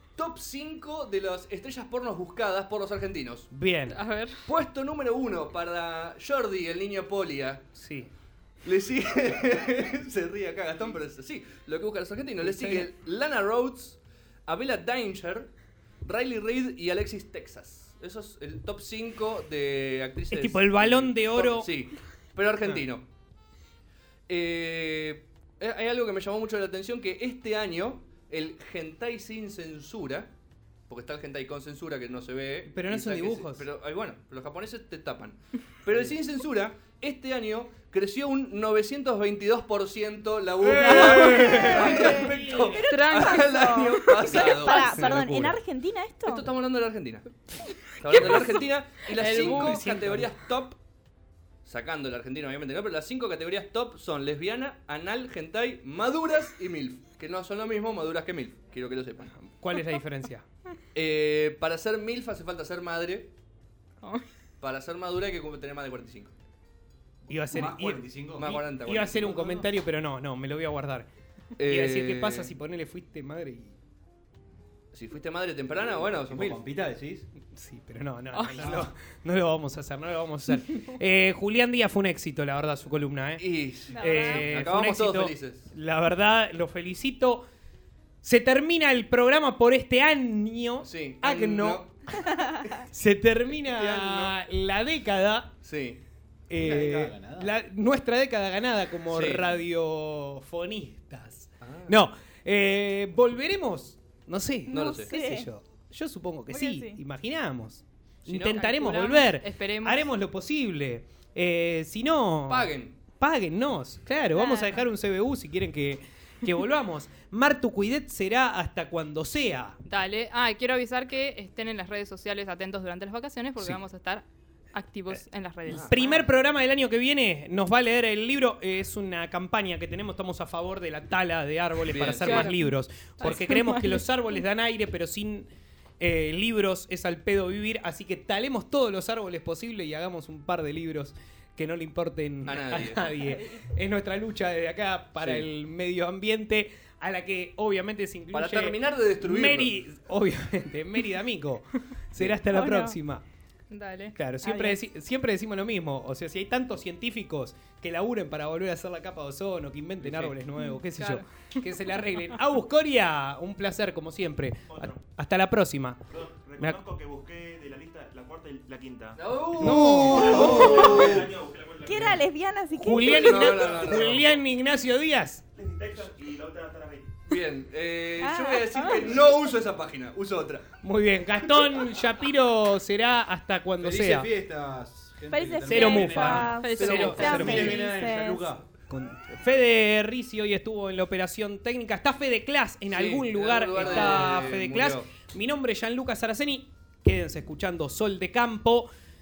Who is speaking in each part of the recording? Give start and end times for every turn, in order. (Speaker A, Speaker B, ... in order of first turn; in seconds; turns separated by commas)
Speaker A: 0.2-3.5, Speaker B: 3.5-4.0, Speaker C: 3.9-4.5, Speaker A: 4.5-7.6, Speaker B: 7.8-8.1, Speaker A: 8.6-15.5, Speaker B: 12.4-12.9, Speaker A: 16.0-23.0, Speaker B: 20.3-21.7, Speaker A: 24.3-30.3, Speaker A: 30.9-45.1, Speaker B: 32.7-33.6, Speaker B: 40.6-42.3, Speaker D: 40.7-46.5, Speaker C: 42.8-43.7, Speaker B: 44.7-45.6, Speaker C: 44.7-45.0, Speaker A: 46.2-47.3, Speaker A: 48.0-50.8, Speaker C: 49.1-50.0, Speaker B: 49.2-50.3, Speaker A: 51.6-59.3, Speaker B: 59.4-60.4, Speaker A: 60.9-63.3, Speaker C: 64.0-64.3, Speaker A: 64.6-66.3, Speaker B: 67.3-71.1, Speaker E: 67.5-68.5, Speaker A: 68.3-69.3, Speaker E: 69.1-69.7, Speaker A: 71.6-72.5, Speaker B: 71.7-73.8, Speaker A: 74.9-76.6, Speaker E: 76.3-77.2, Speaker B: 77.4-83.4, Speaker C: 78.3-78.8, Speaker E: 78.6-78.9, Speaker A: 83.4-85.7, Speaker D: 83.9-84.5, Speaker B: 84.0-87.4, Speaker B: 88.2-95.5, Speaker A: 90.8-92.1, Speaker E: 93.8-94.3, Speaker A: 95.6-96.0, Speaker B: 96.5-119.8, Speaker E: 96.6-97.5, Speaker A: 99.1-99.5, Speaker A: 101.6-102.0, Speaker D: 104.7-105.5, Speaker A: 104.7-105.1, Speaker D: 106.5-107.0, Speaker A: 108.3-108.5, Speaker C: 108.4-110.1, Speaker A: 112.5-113.0, Speaker D: 114.3-114.8, Speaker C: 119.8-126.2, Speaker A: 125.7-126.1, Speaker B: 125.7-135.5, Speaker A: 131.9-132.5, Speaker C: 132.2-134.1, Speaker B: 136.0-153.2, Speaker A: 142.4-143.1, Speaker A: 145.2-145.5, Speaker A: 148.3-149.7, Speaker C: 152.6-152.8, Speaker C: 153.7-154.1, Speaker B: 154.2-166.0, Speaker D: 154.4-154.8, Speaker C: 160.8-162.3, Speaker F: 164.7-165.0, Speaker F: 166.1-172.2, Speaker A: 169.2-171.3, Speaker B: 169.6-170.9, Speaker D: 170.0-171.0, Speaker D: 171.8-173.7, Speaker B: 172.7-175.4, Speaker A: 173.1-174.2, Speaker F: 175.6-177.1, Speaker A: 177.2-180.6, Speaker D: 178.2-179.2, Speaker B: 180.8-184.3, Speaker E: 183.8-188.6, Speaker D: 185.3-188.5, Speaker B: 185.7-187.8, Speaker C: 185.8-187.7, Speaker A: 186.9-187.8, Speaker B: 188.9-198.9, Speaker A: 192.9-195.1